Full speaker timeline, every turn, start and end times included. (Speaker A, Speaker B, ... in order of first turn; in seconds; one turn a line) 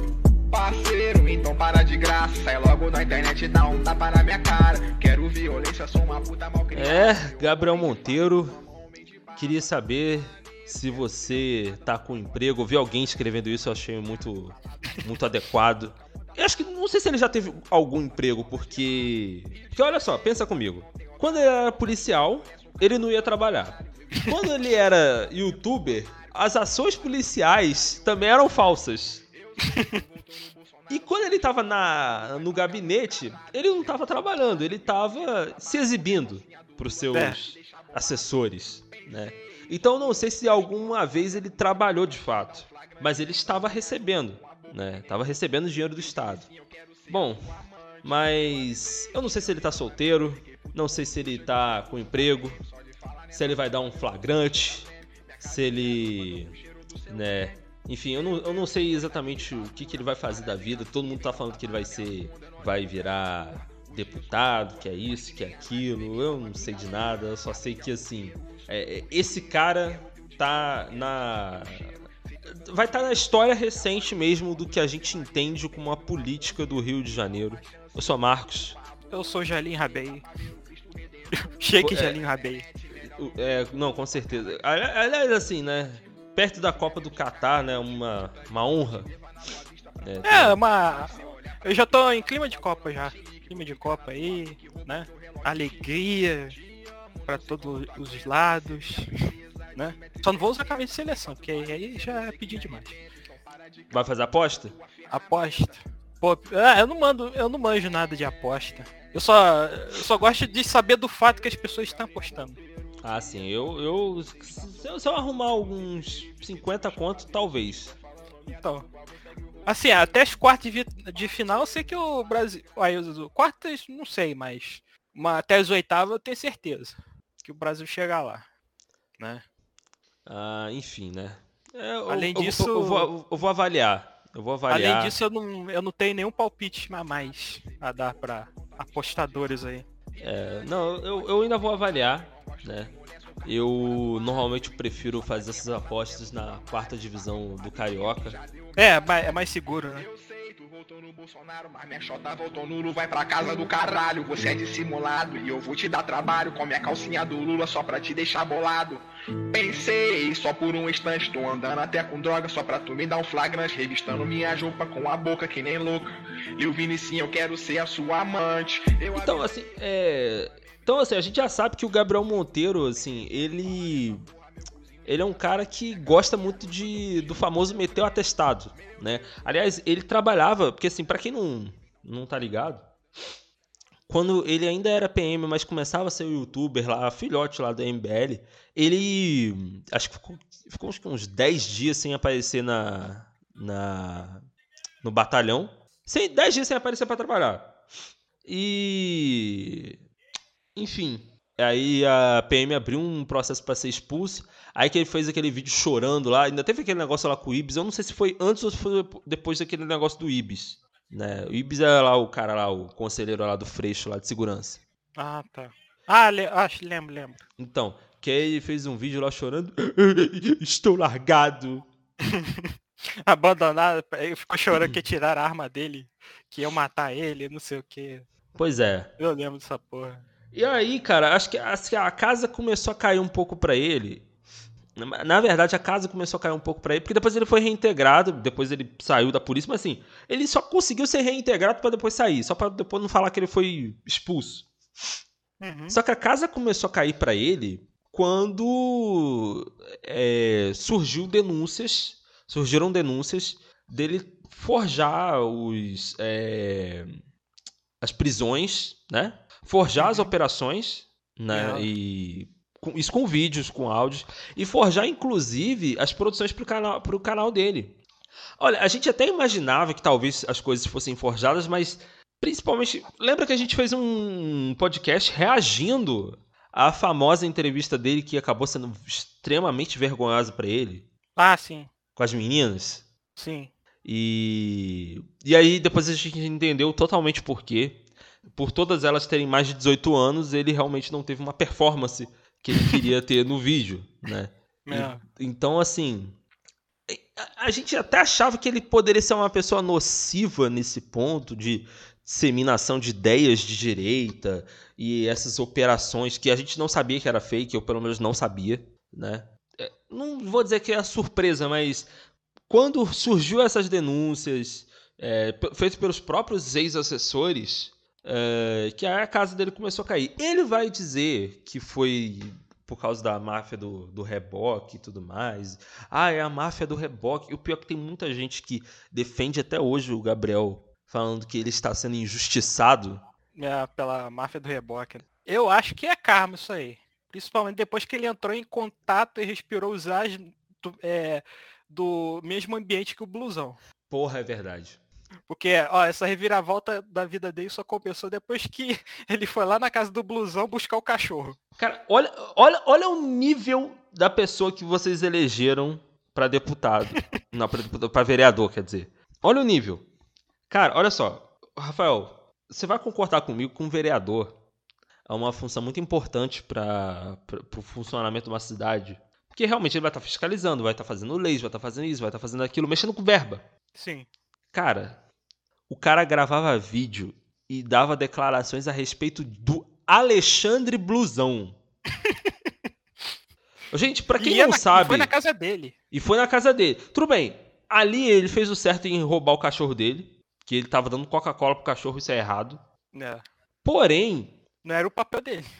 Speaker A: 0.5-9.4
Speaker B: 6.7-8.6
Speaker B: 9.4-29.2
Speaker A: 29.5-31.4
Speaker B: 30.9-46.5
Speaker A: 32.0-33.7
Speaker A: 35.4-38.1
Speaker C: 37.1-37.4
Speaker A: 42.3-45.2
Speaker A: 46.0-47.4
Speaker B: 47.1-47.4
Speaker B: 48.0-52.6
Speaker A: 50.7-53.8
Speaker B: 53.3-54.9
Speaker A: 55.3-56.6
Speaker B: 55.4-56.5
Speaker B: 57.1-71.9
Speaker A: 62.3-62.6
Speaker B: 72.5-78.8
Speaker C: 79.1-80.2
Speaker A: 80.7-81.4
Speaker C: 81.6-82.7
Speaker B: 81.8-82.2
Speaker A: 82.8-83.0
Speaker B: 83.0-89.1
Speaker A: 89.0-91.7
Speaker B: 90.0-90.6
Speaker C: 90.2-96.5
Speaker A: 93.1-93.7
Speaker A: 94.3-95.7
Speaker A: 96.4-98.4
Speaker C: 97.3-99.1
Speaker A: 99.2-100.6
Speaker C: 99.8-102.9
Speaker A: 103.3-105.5
Speaker B: 103.9-104.8
Speaker C: 105.1-112.6
Speaker B: 113.0-118.0
Speaker C: 118.5-118.9
Speaker C: 119.7-128.4
Speaker C: 129.2-129.4
Speaker B: 130.3-135.2
Speaker C: 132.1-133.1
Speaker C: 134.7-139.9
Speaker B: 140.2-142.9
Speaker A: 142.9-143.5
Speaker B: 143.4-148.4
Speaker A: 147.8-148.8
Speaker C: 148.8-150.1
Speaker A: 149.9-169.4
Speaker B: 169.2-174.2
Speaker B: 175.1-182.9
Speaker B: 184.1-194.4
Speaker B: 195.0-197.8
Speaker B: 198.4-200.0
Speaker B: 200.8-214.8
Speaker C: 215.2-217.4
Speaker B: 217.6-221.9
Speaker C: 222.3-222.7
Speaker C: 223.3-228.3
Speaker B: 228.6-229.1
Speaker C: 229.2-230.2
Speaker B: 230.5-234.3
Speaker B: 235.0-244.7
Speaker C: 245.6-246.0
Speaker B: 245.9-257.1
Speaker B: 258.0-268.0
Speaker C: 260.0-260.3
Speaker C: 261.5-261.9
Speaker B: 268.6-281.1
Speaker C: 281.4-281.9
Speaker B: 282.2-283.1
Speaker C: 283.4-283.7
Speaker B: 284.1-296.4
Speaker C: 292.8-293.0
Speaker C: 294.9-295.2
Speaker B: 297.1-312.1
Speaker B: 312.7-333.2
Speaker C: 333.6-343.8
Speaker B: 344.1-345.0
Speaker C: 345.5-351.6
Speaker B: 351.8-360.1
Speaker B: 360.7-364.5
Speaker B: 365.3-373.6
Speaker C: 373.9-374.3
Speaker B: 374.7-375.2
Speaker B: 375.9-381.8
Speaker C: 382.2-382.7
Speaker B: 383.9-385.3
Speaker C: 384.4-385.9
Speaker B: 386.1-392.8
Speaker C: 393.1-393.4
Speaker B: 393.9-394.6
Speaker C: 394.8-395.7